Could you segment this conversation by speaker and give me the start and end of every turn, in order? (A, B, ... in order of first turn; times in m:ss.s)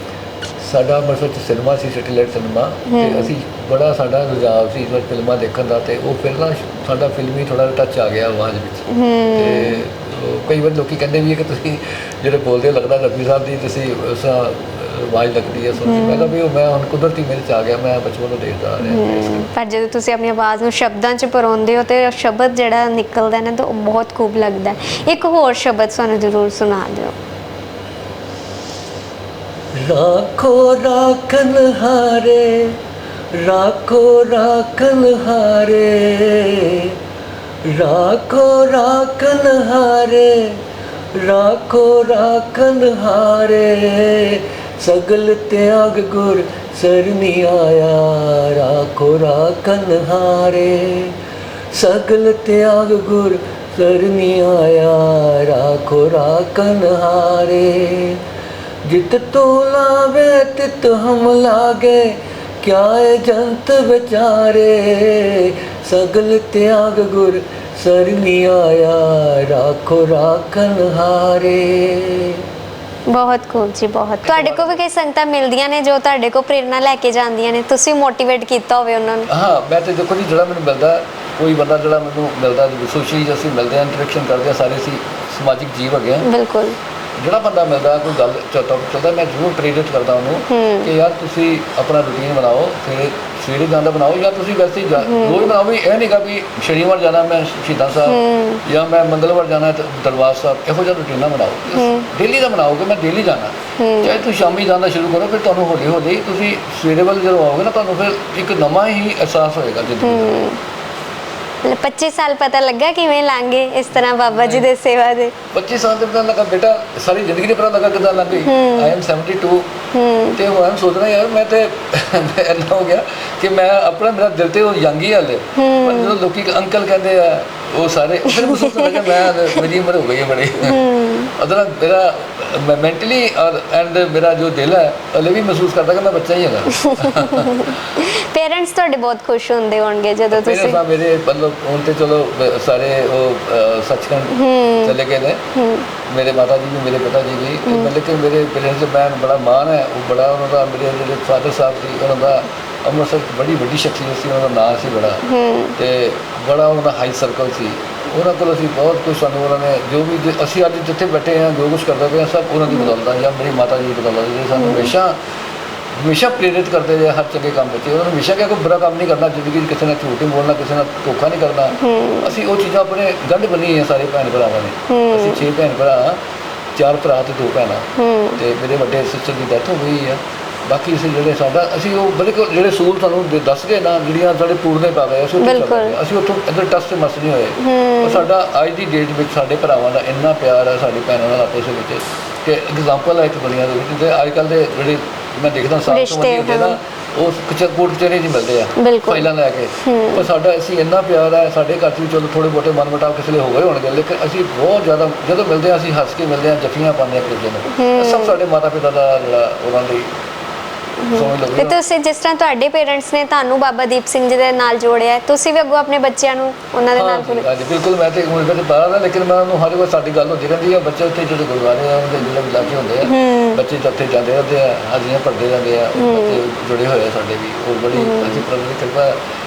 0:00.6-0:19.5 A
0:02.9-0:03.3 B
0:08.9-0:09.8 B
0:15.8-0:16.4 B
0:18.8-0:27.1 B
0:29.8-0:32.8 C
0:33.3-0:37.0 C
0:37.6-0:40.6 C
0:41.1-0:51.2 C
0:51.7-0:58.2 C
0:58.8-1:12.4 C
1:13.1-1:19.3 B
1:14.2-1:14.8 A
1:19.3-1:26.3 A
1:26.2-1:26.8 B
1:27.2-1:50.4 A
1:30.5-1:30.9 B
1:35.0-1:35.5 B
1:38.1-1:38.6 B
1:41.8-1:42.1 B
1:43.8-1:44.2 B
1:50.0-1:50.6 B
1:51.6-1:55.3 B
1:54.0-1:54.6 A
1:55.5-1:59.7 A
1:58.3-1:58.9 B
1:59.9-2:00.4 B
2:00.4-2:10.8 A
2:05.6-2:06.2 B
2:08.3-2:09.6 B
2:10.6-2:11.3 B
2:11.4-2:17.5 A
2:16.9-2:20.8 B
2:20.3-2:25.4 A
2:24.3-2:25.0 B
2:25.5-2:25.9 B
2:26.1-2:35.2 A
2:27.6-2:27.9 B
2:35.2-2:35.8 B
2:35.8-2:45.2 A
2:44.6-2:44.9 B
2:46.0-2:56.2 A
2:51.8-2:52.3 B
2:54.9-2:55.4 B
2:56.7-3:30.1 A
2:58.0-2:58.4 B
3:05.4-3:06.0 B
3:07.6-3:08.3 B
3:15.9-3:16.8 B
3:18.8-3:19.3 B
3:19.8-3:20.3 B
3:27.7-3:28.4 B
3:31.0-3:37.5 B
3:31.1-3:31.8 A
3:36.9-3:49.2 A
3:43.0-3:43.6 B
3:46.0-3:46.4 B
3:47.9-3:48.4 B